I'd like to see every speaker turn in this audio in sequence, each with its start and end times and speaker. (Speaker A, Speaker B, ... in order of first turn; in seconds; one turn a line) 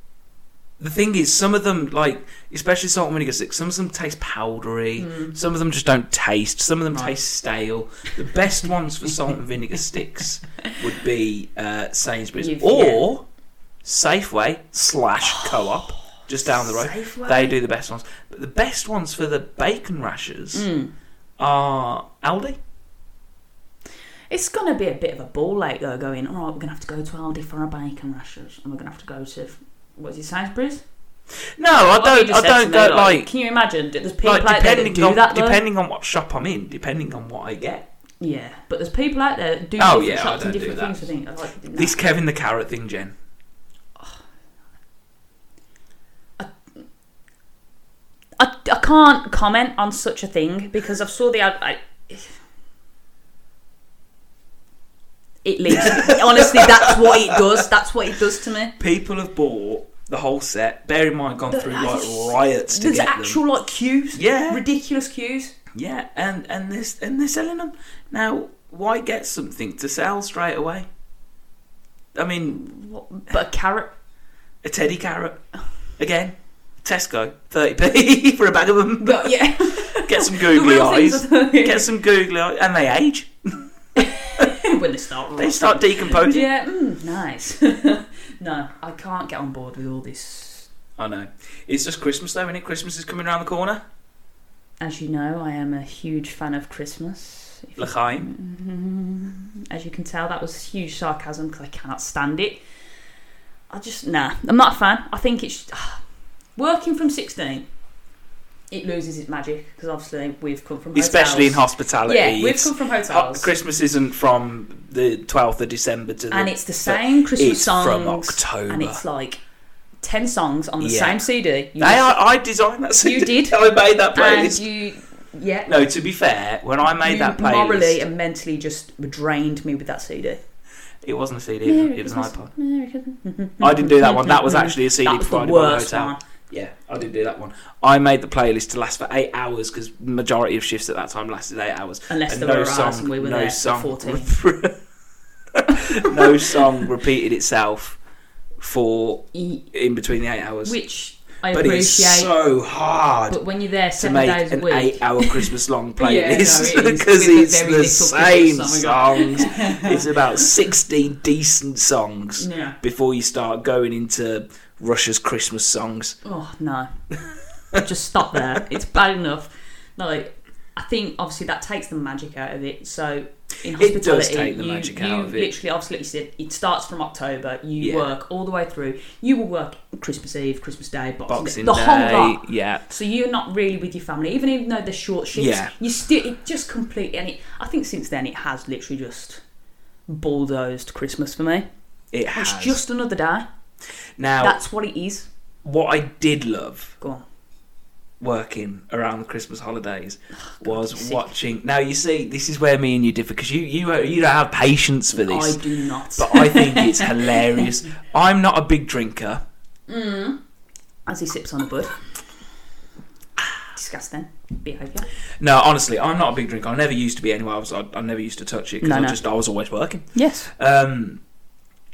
Speaker A: 0.8-13.2
Speaker B: 5.0-5.4
Speaker B: 12.4-13.1
Speaker A: 13.8-20.7
Speaker B: 15.2-15.8
Speaker B: 16.5-17.6
Speaker B: 20.5-20.9
Speaker A: 21.4-22.6
Speaker B: 24.3-30.8
Speaker A: 31.6-33.3
Speaker B: 31.8-35.6
Speaker A: 34.2-37.9
Speaker B: 38.2-42.0
Speaker A: 39.8-41.1
Speaker A: 41.7-43.1
Speaker B: 48.4-52.4
Speaker B: 55.4-58.8
Speaker A: 55.7-57.6
Speaker A: 58.8-63.4
Speaker B: 61.5-65.5
Speaker A: 64.1-64.6
Speaker A: 65.7-70.9
Speaker A: 72.2-72.6
Speaker B: 72.5-73.9
Speaker A: 74.6-75.4
Speaker A: 76.0-83.7
Speaker B: 79.0-81.9
Speaker B: 84.0-90.7
Speaker A: 85.4-86.5
Speaker A: 91.0-93.8
Speaker B: 94.8-102.6
Speaker A: 97.8-98.3
Speaker B: 103.7-106.0
Speaker B: 106.6-107.7
Speaker B: 108.7-113.5
Speaker A: 110.9-119.0
Speaker B: 116.3-119.4
Speaker B: 120.0-122.2
Speaker A: 120.8-121.2
Speaker A: 121.8-124.6
Speaker B: 123.0-123.6
Speaker B: 124.1-125.7
Speaker A: 125.7-128.0
Speaker B: 127.0-130.4
Speaker A: 131.0-132.5
Speaker B: 131.7-136.2
Speaker A: 133.6-144.8
Speaker B: 142.1-144.3
Speaker A: 145.5-148.0
Speaker B: 145.8-146.6
Speaker A: 148.6-150.8
Speaker B: 149.3-149.7
Speaker B: 150.7-152.3
Speaker A: 151.5-153.4
Speaker B: 153.3-160.4
Speaker A: 154.0-166.2
Speaker B: 162.4-162.8
Speaker B: 166.2-166.9
Speaker B: 167.8-189.4
Speaker A: 173.7-175.5
Speaker A: 177.8-178.1
Speaker A: 181.3-182.9
Speaker A: 185.3-185.7
Speaker B: 190.1-191.7
Speaker A: 192.1-192.8
Speaker B: 192.3-193.5
Speaker A: 194.2-194.6
Speaker B: 194.4-195.3
Speaker A: 195.6-197.0
Speaker A: 198.2-205.6
Speaker B: 200.5-201.3
Speaker B: 205.2-207.7
Speaker A: 206.2-209.4
Speaker B: 209.9-210.4
Speaker B: 211.1-211.9
Speaker B: 213.7-215.1
Speaker A: 215.4-221.2
Speaker B: 218.8-219.2
Speaker B: 220.1-220.5